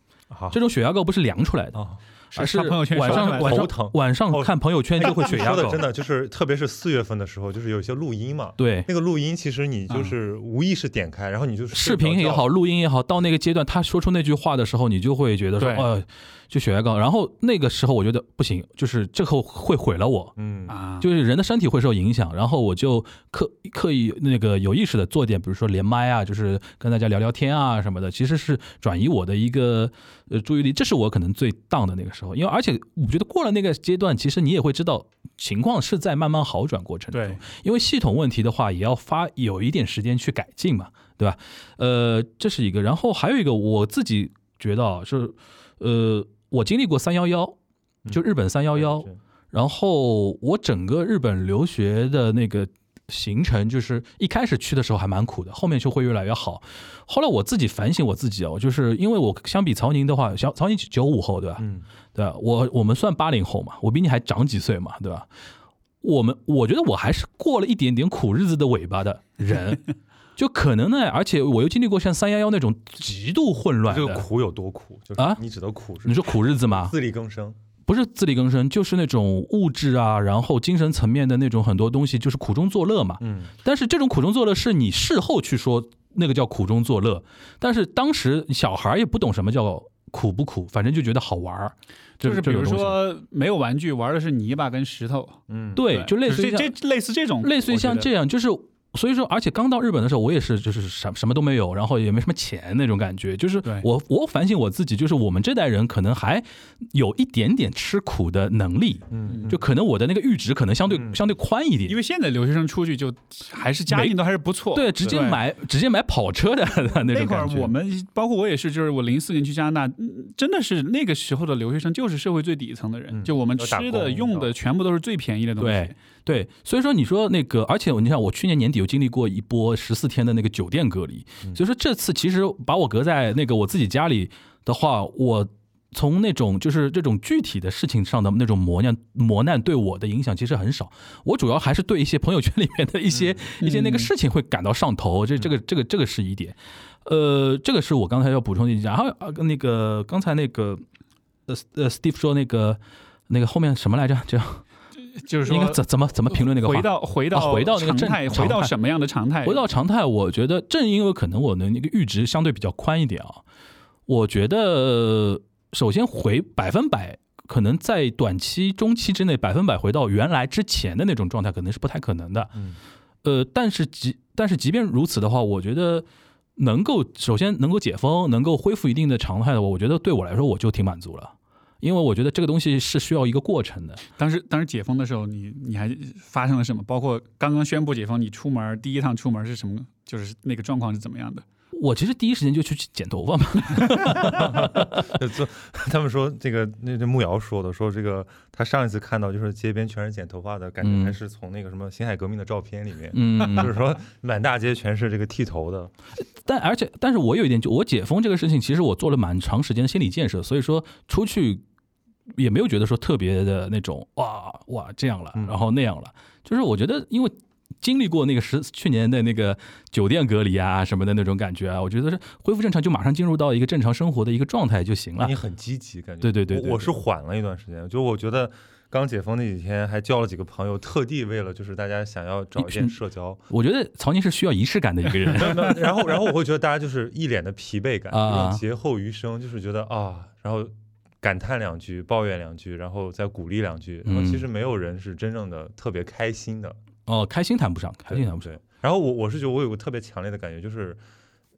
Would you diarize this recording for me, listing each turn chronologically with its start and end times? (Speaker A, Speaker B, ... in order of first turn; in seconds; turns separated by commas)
Speaker A: 0.3-0.6, Speaker B: 0.5-5.8, Speaker A: 1.7-2.0, Speaker C: 2.3-3.7, Speaker A: 3.0-12.4, Speaker B: 8.6-8.9, Speaker B: 11.7-20.3, Speaker C: 15.6-15.9, Speaker A: 20.4-20.7, Speaker C: 20.7-21.1, Speaker B: 21.0-47.5, Speaker C: 37.1-37.4, Speaker A: 48.0-49.2, Speaker B: 48.1-65.3, Speaker A: 61.6-61.8, Speaker B: 66.0-74.2, Speaker A: 73.9-77.6, Speaker B: 76.0-76.9, Speaker B: 77.9-93.0, Speaker A: 83.2-83.5, Speaker C: 92.2-98.1, Speaker A: 95.5-95.8, Speaker B: 95.8-96.7, Speaker B: 97.4-111.9, Speaker A: 109.1-109.6, Speaker C: 109.2-109.5, Speaker A: 110.9-111.2, Speaker C: 111.9-115.4, Speaker B: 113.9-114.2, Speaker B: 114.7-117.7, Speaker C: 117.1-126.0, Speaker A: 123.1-124.5, Speaker B: 125.6-150.8, Speaker A: 143.1-143.4, Speaker C: 143.6-144.1, Speaker B: 151.5-154.6, Speaker C: 155.1-159.6, Speaker B: 155.4-158.7, Speaker B: 159.4-163.4, Speaker B: 164.1-172.6, Speaker B: 173.2-176.1, Speaker B: 176.6-184.0, Speaker C: 184.2-191.4, Speaker B: 191.7-195.1, Speaker A: 194.4-205.9, Speaker B: 200.8-201.1, Speaker B: 203.1-203.8, Speaker B: 206.4-211.6, Speaker B: 212.3-225.3, Speaker A: 225.2-233.4, Speaker B: 226.2-226.9, Speaker B: 232.6-232.9, Speaker B: 233.5-235.8, Speaker A: 235.3-246.8, Speaker B: 238.1-238.6, Speaker B: 244.1-244.4, Speaker B: 247.1-248.5, Speaker A: 248.1-251.0